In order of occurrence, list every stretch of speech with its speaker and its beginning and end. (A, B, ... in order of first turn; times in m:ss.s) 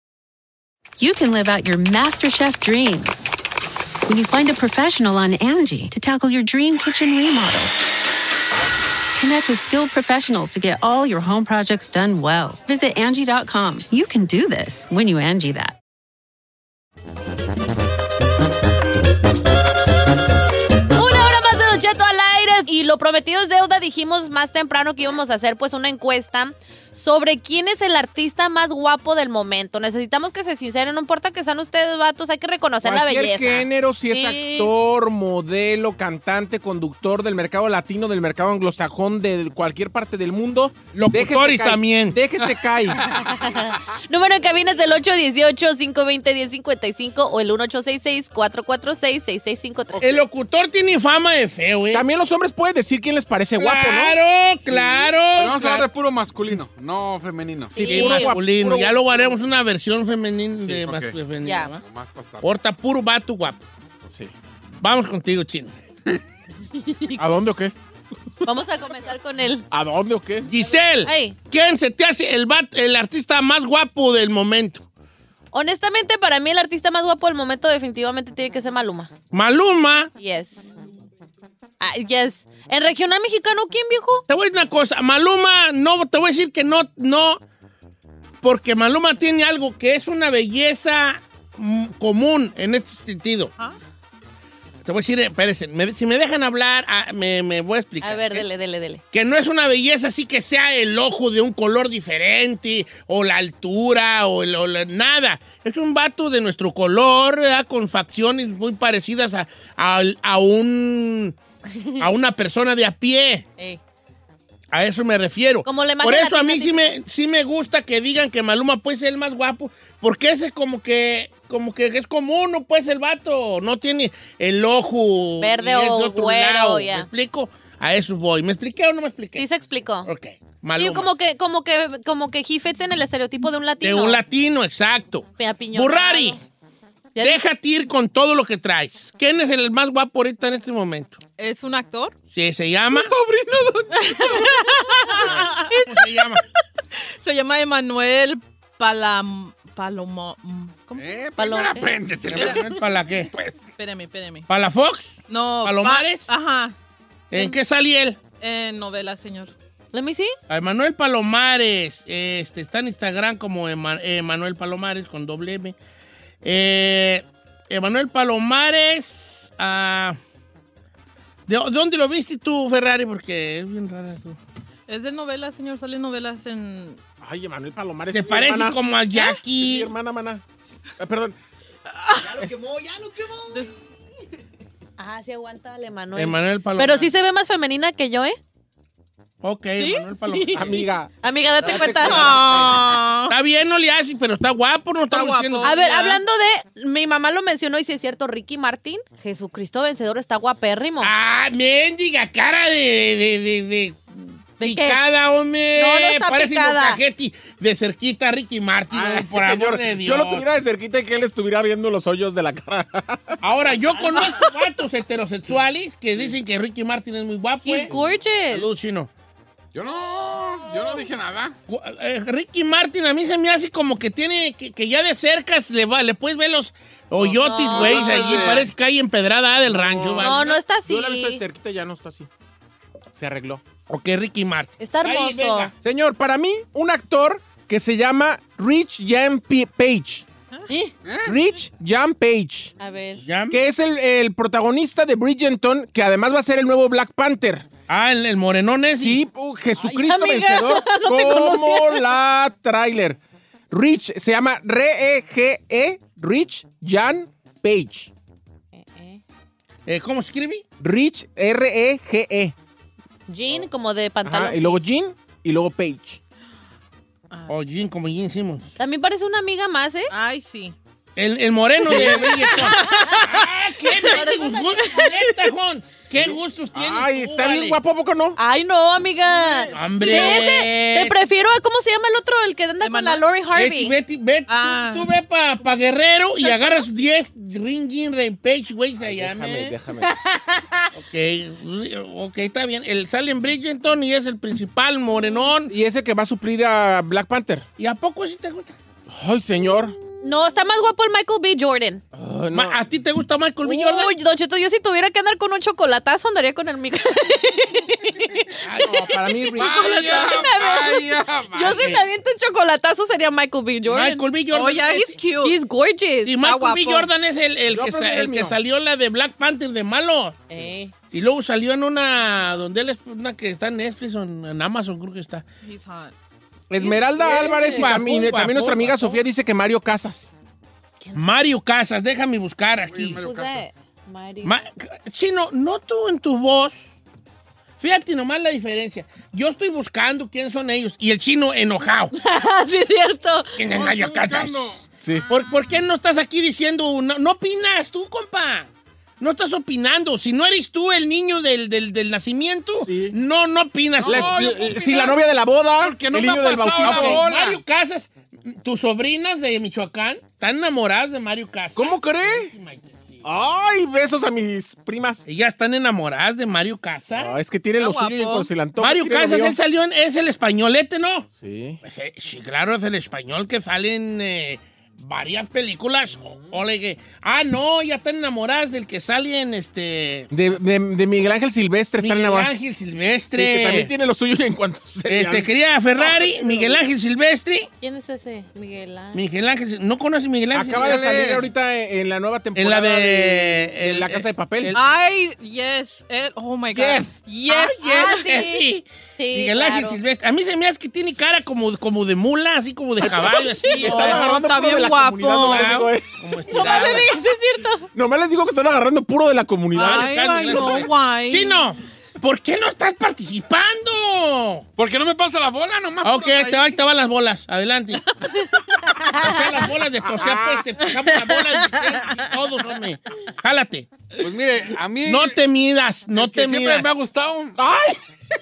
0:01.0-0:03.3 A
0:04.1-0:07.7 A
0:09.2-0:15.8 A
0:20.9-0:34.7 B
0:32.8-0:43.0 C
0:41.0-0:42.2 D
0:43.0-0:43.8 E
0:43.3-0:50.1 B
0:50.0-0:52.0 D
0:51.9-0:54.2 C
0:53.6-0:55.9 D
0:54.7-0:57.8 E
0:57.7-0:58.3 B
0:57.8-0:59.2 C
0:57.8-1:01.8 D
1:00.7-1:01.2 E
1:01.4-1:01.7 B
1:01.7-1:02.5 E
1:02.4-1:03.6 D
1:04.8-1:05.7 D
1:06.8-1:07.2 B
1:07.2-1:07.7 C
1:08.4-1:09.7 B
1:09.7-1:10.5 C
1:10.4-1:14.9 D
1:11.0-1:11.4 B
1:15.5-1:19.1 B
1:19.3-1:20.1 D
1:20.2-1:20.6 B
1:21.8-1:24.2 B
1:24.3-1:27.4 D
1:28.4-1:33.5 D
1:34.8-1:38.5 D
1:38.0-1:39.0 B
1:39.1-1:51.4 D
1:51.7-1:52.1 B
1:52.0-1:53.5 D
1:54.7-2:09.4 D
1:55.6-1:57.0 B
2:05.4-2:07.1 B
2:09.4-2:10.1 B
2:10.1-2:11.1 D
2:10.8-2:14.2 B
2:13.8-2:16.4 D
2:15.4-2:16.4 B
2:17.2-2:17.4 B
2:17.2-2:21.2 D
2:21.4-2:22.2 F
2:22.3-2:23.1 D
2:22.9-2:24.6 E
2:24.0-2:25.8 F
2:25.1-2:26.4 D
2:25.7-2:26.0 B
2:27.0-2:31.0 F
2:30.9-2:33.7 E
2:31.4-2:32.0 B
2:32.3-2:33.3 D
2:32.3-2:32.8 F
2:33.8-2:34.5 F
2:34.5-2:36.3 D
2:35.3-2:36.7 F
2:37.3-2:38.2 D
2:38.4-2:39.5 F
2:39.9-2:40.3 B
2:40.5-2:45.8 D
2:46.4-2:50.2 D
2:51.5-2:54.4 D
2:54.9-2:57.0 F
2:57.2-2:58.8 C
2:58.1-2:59.9 D
2:59.6-3:01.4 C
3:01.9-3:02.5 F
3:02.4-3:02.6 C
3:03.4-3:03.7 F
3:05.0-3:08.4 B
3:06.2-3:07.1 D
3:09.4-3:10.8 D
3:09.8-3:10.1 F
3:10.2-3:12.4 B
3:10.5-3:11.1 C
3:11.6-3:12.8 E
3:12.0-3:13.3 F
3:13.3-3:15.8 D
3:15.1-3:16.2 F
3:15.6-3:21.1 B
3:21.0-3:30.4 D
3:24.6-3:25.0 B
3:25.8-3:27.0 B
3:28.9-3:33.4 C
3:33.4-3:37.9 D
3:37.6-3:38.7 B
3:38.5-3:39.1 D
3:39.7-3:41.5 E
3:41.7-3:50.4 D
3:47.2-3:48.5 B
3:47.3-3:48.7 E
3:49.7-3:52.3 C
3:50.2-3:51.4 B
3:53.1-3:53.6 C
3:53.9-3:55.7 D
3:54.8-3:55.7 B
3:55.8-4:00.2 C
4:01.0-4:01.4 E
4:01.2-4:02.7 C
4:02.8-4:03.2 B
4:03.2-4:03.6 D
4:03.5-4:07.7 C
4:07.9-4:09.2 D
4:08.9-4:13.2 C
4:09.8-4:12.1 B
4:13.7-4:18.1 C
4:18.8-4:19.2 B
4:19.9-4:20.6 D
4:20.8-4:22.5 C
4:23.3-4:24.8 B
4:24.2-4:26.2 C
4:27.5-4:28.7 D
4:28.8-4:30.1 B
4:30.1-4:30.8 F
4:31.2-4:37.8 D
4:31.8-4:32.4 C
4:31.8-4:34.3 F
4:32.2-4:33.2 B
4:34.0-4:34.9 B
4:34.8-4:35.3 F
4:36.1-4:36.4 E
4:36.8-4:38.4 C
4:38.4-4:44.0 B
4:39.3-4:40.4 F
4:39.7-4:41.1 D
4:42.8-4:43.3 F
4:43.5-4:49.8 D
4:44.5-4:45.1 F
4:49.0-4:50.2 C
4:50.0-4:50.9 B
4:51.0-4:55.7 D
4:55.7-4:57.6 C
4:57.8-4:58.8 D
4:59.1-5:00.0 C
4:59.6-5:02.0 B
5:02.1-5:02.8 C
5:02.5-5:04.1 D
5:03.6-5:09.1 B
5:08.6-5:10.4 D
5:09.1-5:09.7 C
5:09.6-5:12.0 E
5:09.9-5:10.3 F
5:10.0-5:14.4 B
5:11.7-5:12.0 D
5:13.9-5:15.2 D
5:14.5-5:15.6 F
5:15.4-5:16.4 B
5:16.2-5:20.5 D
5:16.4-5:17.1 F
5:17.7-5:18.6 C
5:20.5-5:20.9 B
5:21.1-5:25.4 D
5:25.6-5:26.1 F
5:26.7-5:30.3 C
5:26.8-5:28.0 B
5:27.2-5:29.2 D
5:31.0-5:31.3 B
5:31.2-5:33.2 D
5:32.9-5:33.7 E
5:33.2-5:34.7 B
5:34.4-5:36.9 D
5:37.8-5:42.1 D
5:42.1-5:43.6 B
5:43.6-5:44.8 D
5:43.7-5:44.9 E
5:45.3-5:48.7 D
5:49.2-5:54.5 D
5:52.8-5:53.2 C
5:54.0-5:57.6 E
5:54.0-5:57.2 C
5:56.8-6:03.3 D
6:01.8-6:02.5 C
6:03.2-6:05.3 C
6:05.3-6:07.4 D
6:07.2-6:09.6 C
6:07.8-6:08.5 F
6:08.8-6:11.3 D
6:11.4-6:11.8 C
6:11.8-6:20.3 D
6:20.3-6:22.5 C
6:22.0-6:23.9 D
6:23.3-6:25.5 C
6:25.0-6:27.7 D
6:27.8-6:29.2 B
6:29.2-6:31.1 D
6:30.5-6:34.8 C
6:30.8-6:31.5 E
6:32.6-6:34.8 D
6:34.8-6:38.5 F
6:36.7-6:37.2 C
6:37.5-6:44.3 D
6:37.7-6:40.0 B
6:43.7-6:44.3 B
6:43.7-6:45.8 F
6:43.8-6:46.1 C
6:45.3-6:47.1 D
6:46.5-6:47.9 B
6:46.6-6:47.1 F
6:48.0-6:50.1 C
6:49.8-6:51.5 F
6:49.8-6:54.7 D
6:54.8-6:56.8 E
6:56.0-6:58.0 D
6:58.8-6:59.7 B
6:59.2-7:03.9 D
7:00.2-7:00.6 C
7:00.8-7:02.3 F
7:04.2-7:05.4 E
7:05.0-7:06.9 D
7:06.2-7:07.6 E
7:07.6-7:08.0 C